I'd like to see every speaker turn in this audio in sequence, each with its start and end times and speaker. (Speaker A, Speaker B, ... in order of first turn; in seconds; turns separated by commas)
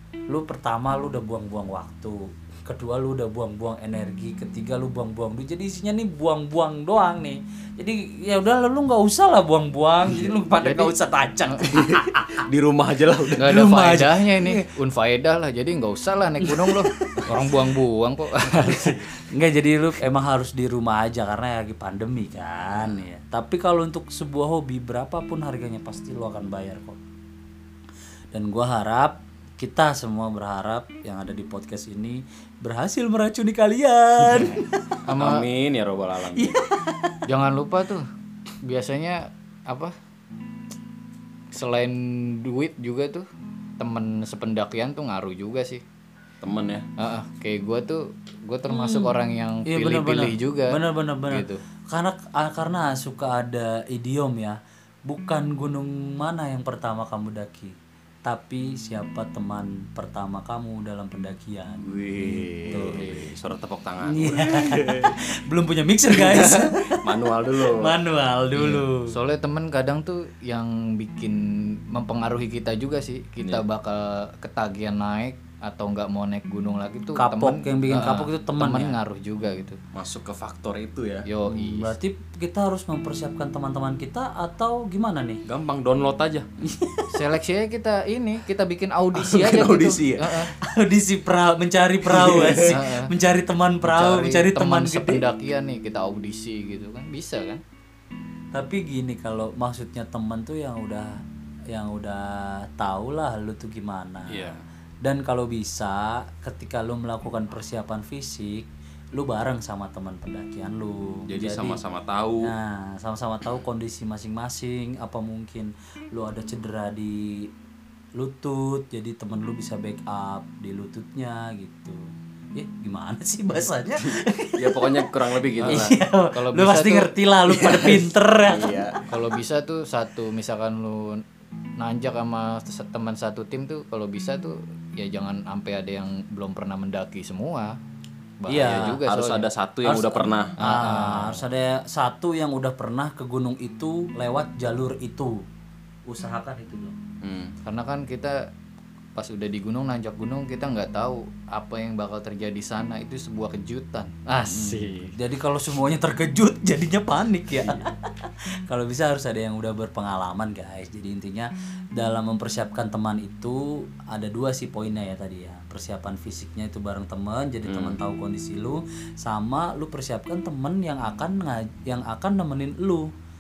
Speaker A: 0.3-12.4, Speaker B: 10.6-10.9, Speaker C: 11.7-13.6, Speaker B: 13.4-19.1, Speaker A: 13.4-14.6, Speaker A: 16.4-17.5, Speaker A: 18.6-27.0, Speaker C: 22.8-23.1, Speaker A: 28.3-34.6, Speaker C: 34.3-36.6, Speaker B: 35.0-35.5, Speaker A: 36.3-37.2, Speaker B: 37.2-38.1, Speaker B: 38.6-39.9, Speaker B: 41.5-43.2, Speaker B: 43.8-45.8, Speaker C: 46.4-46.9, Speaker B: 47.0-50.8, Speaker A: 48.7-49.1, Speaker A: 49.6-63.0, Speaker B: 51.3-51.6, Speaker C: 61.8-65.1, Speaker B: 62.7-63.3, Speaker A: 64.0-67.1, Speaker C: 66.1-67.9, Speaker A: 67.6-69.1, Speaker B: 68.5-79.8, Speaker A: 77.1-79.0, Speaker C: 79.9-81.2, Speaker B: 81.2-81.9, Speaker A: 81.5-85.4, Speaker C: 85.4-86.5, Speaker A: 86.6-87.2, Speaker B: 87.1-90.5, Speaker C: 89.1-90.5, Speaker A: 90.5-95.2, Speaker B: 92.2-93.1, Speaker C: 92.3-92.7, Speaker B: 93.8-97.6, Speaker A: 98.5-111.8, Speaker C: 104.3-104.6, Speaker C: 111.3-112.5, Speaker A: 112.4-117.5, Speaker A: 118.2-125.1, Speaker C: 124.0-126.0, Speaker A: 125.6-128.8, Speaker B: 125.6-127.1, Speaker C: 127.5-129.1, Speaker B: 129.1-131.2, Speaker B: 131.8-137.8, Speaker B: 138.4-139.5, Speaker A: 138.5-139.0, Speaker C: 138.6-140.6, Speaker A: 139.8-145.4, Speaker B: 140.6-141.4, Speaker A: 146.1-146.9, Speaker C: 147.2-147.5, Speaker B: 147.6-148.5, Speaker B: 149.2-155.1, Speaker A: 154.5-173.1, Speaker C: 167.7-168.0